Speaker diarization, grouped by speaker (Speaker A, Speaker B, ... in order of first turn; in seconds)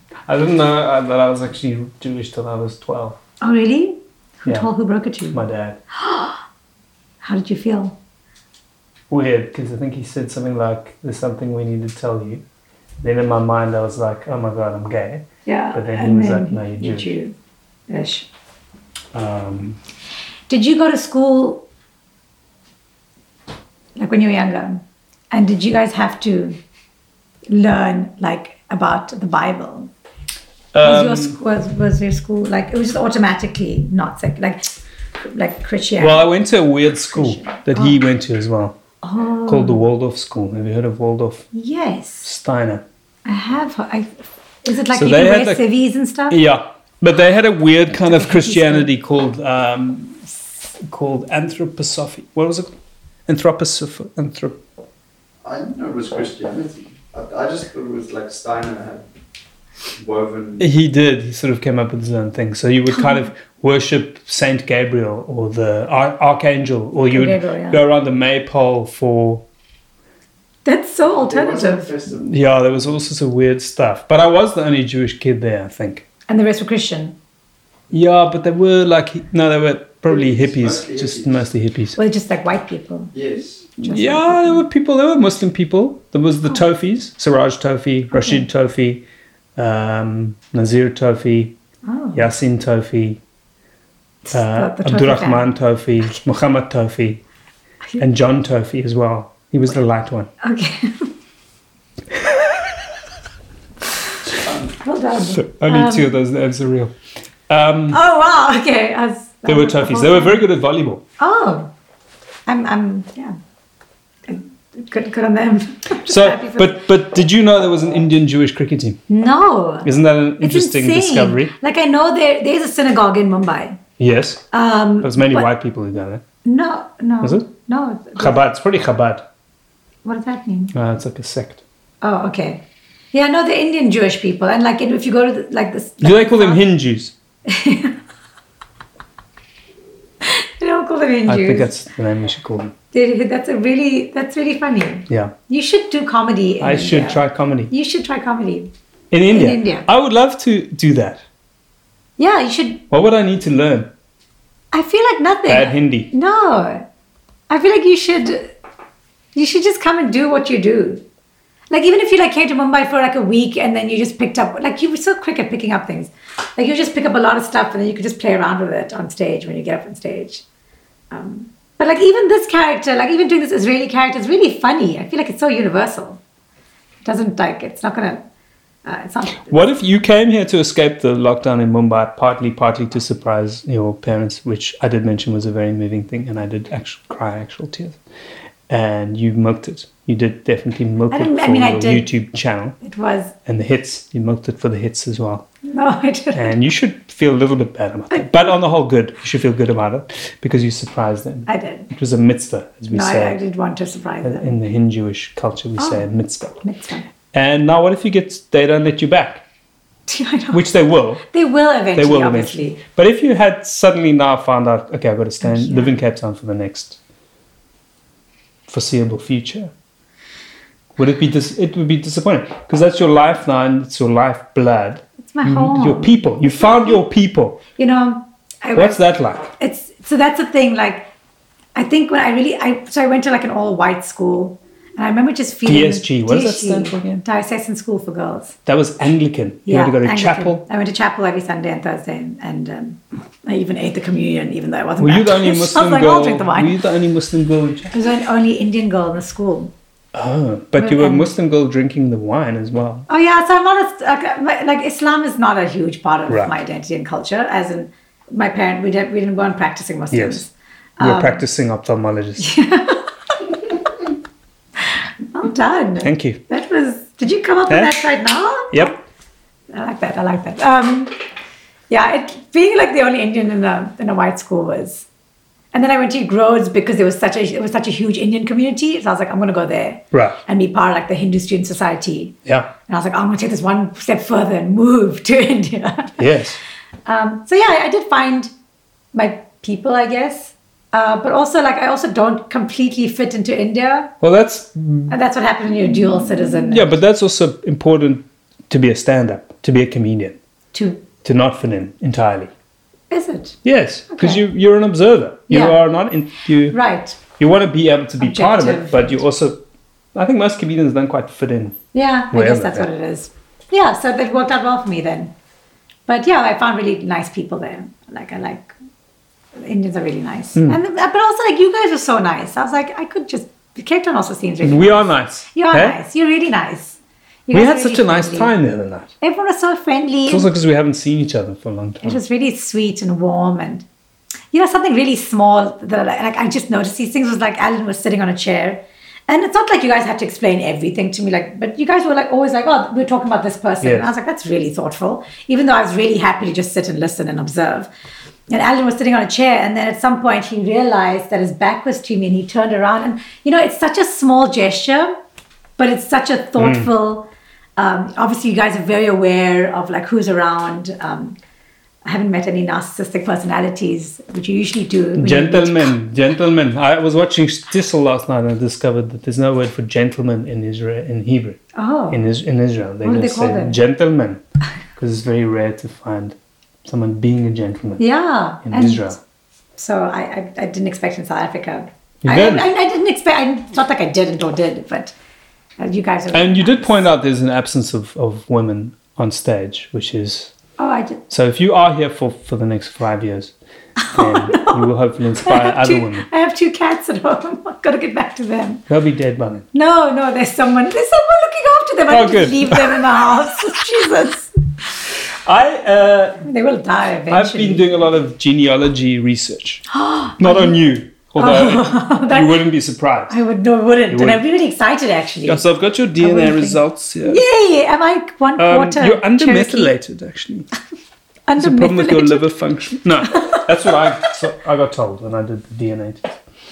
Speaker A: 0.3-3.2, 5.3-5.8, 9.1-12.4, 13.0-17.1, 19.1-19.8, 30.7-31.4, 36.0-38.8, 39.5-41.5, 42.2-42.8, 44.9-45.6, 46.3-52.8, 53.3-54.6, 60.6-69.5, 72.2-76.1, 77.9-82.0, 83.8-89.0, 89.6-91.6, 92.1-93.2, 94.3-97.2, 98.0-100.3, 105.3-106.9, 107.5-108.0, 109.5-111.0, 116.0-119.0, 119.8-121.5, 124.0-124.4, 125.0-126.2, 127.2-127.5, 128.2-129.3, 130.7-131.6, 136.0-137.1, 141.3-142.7, 145.1-145.3, 146.6-147.7, 149.1-151.2, 152.9-153.9, 155.5-156.1, 179.5-188.0, 188.7-192.8, 193.5-195.5, 196.3-203.4, 204.2-206.6, 207.3-209.4, 210.5-211.2, 211.9-217.0, 218.7-219.7, 221.0-227.6, 228.7-229.5, 235.7-237.2, 238.7-240.6, 245.0-247.9, 250.1-253.1, 256.3-256.5, 260.1-260.4, 261.0-262.5, 266.0-266.4, 267.7-268.0, 280.1-280.4, 286.2-286.6, 294.2-295.1, 296.5-300.4, 301.2-302.5, 303.6-306.8, 307.3-309.6, 310.1-311.8, 312.3-312.9, 324.6-326.0, 327.5-329.1, 330.3-332.2, 343.8-344.1, 356.6-356.9, 365.1-374.4, 375.0-378.0, 378.6-379.2, 382.2-382.7, 386.3-390.5, 391.3-393.6, 394.1-396.3, 398.9-399.7, 402.1-403.1, 405.4-406.4, 407.3-409.8, 410.4-413.4, 414.1-414.4, 415.4-417.4, 418.6-420.7, 421.6-426.4
Speaker B: 3.4-6.4, 7.2-8.0, 15.5-17.4, 17.9-18.3, 20.5-21.7, 24.0-26.6, 27.5-29.9, 30.8-34.7, 35.3-36.3, 37.0-38.0, 39.0-39.8, 41.5-42.3, 43.3-46.4, 47.9-48.9, 67.1-67.8, 70.7-71.9, 76.3-77.2, 82.0-83.1, 83.8-84.6, 88.1-88.5, 91.8-92.3, 94.2-95.5, 100.4-101.1, 104.8-106.1, 107.9-110.4, 111.2-111.7, 112.5-113.4, 114.3-116.8, 119.1-123.8, 124.5-125.5, 126.5-128.4, 130.1-130.7, 132.0-136.6, 137.5-138.0, 140.2-141.7, 142.9-148.7, 149.3-149.9, 152.2-152.8, 154.7-156.9, 157.5-158.6, 159.3-161.0, 161.7-170.4, 171.1-176.2, 177.0-178.2, 178.8-179.7, 191.1-192.1, 192.8-193.4, 195.7-196.5, 198.1-198.4, 201.5-201.9, 202.9-204.5, 205.8-207.1, 210.1-210.7, 211.2-212.8, 215.4-215.9, 225.2-226.2, 227.8-231.1, 231.8-238.6, 239.7-246.8, 247.9-249.7, 250.8-251.3, 253.1-261.4, 262.4-263.1, 264.9-268.9, 269.7-271.1, 271.9-275.1, 275.7-286.3, 287.1-288.5, 289.1-294.1, 295.1-297.0, 300.7-301.1, 303.1-303.6, 304.1-304.4, 305.5-305.8, 306.7-307.2, 308.2-309.1, 311.9-315.3, 316.1-318.7, 319.6-328.5, 329.2-330.5, 332.0-333.9, 334.5-347.9, 348.5-355.2, 355.8-361.4, 362.1-365.9, 371.8-372.2, 373.0-373.8, 378.0-379.2, 379.8-385.1, 385.8-387.1, 390.8-391.2, 394.0-394.9, 395.4-398.8, 399.7-404.5, 406.4-407.9, 409.9-410.8, 411.4-412.6, 413.3-415.7, 416.2-419.9, 421.5-422.5, 423.3-423.7
Speaker C: 55.4-59.0, 59.9-60.7, 71.1-72.3, 80.1-81.4, 83.1-83.6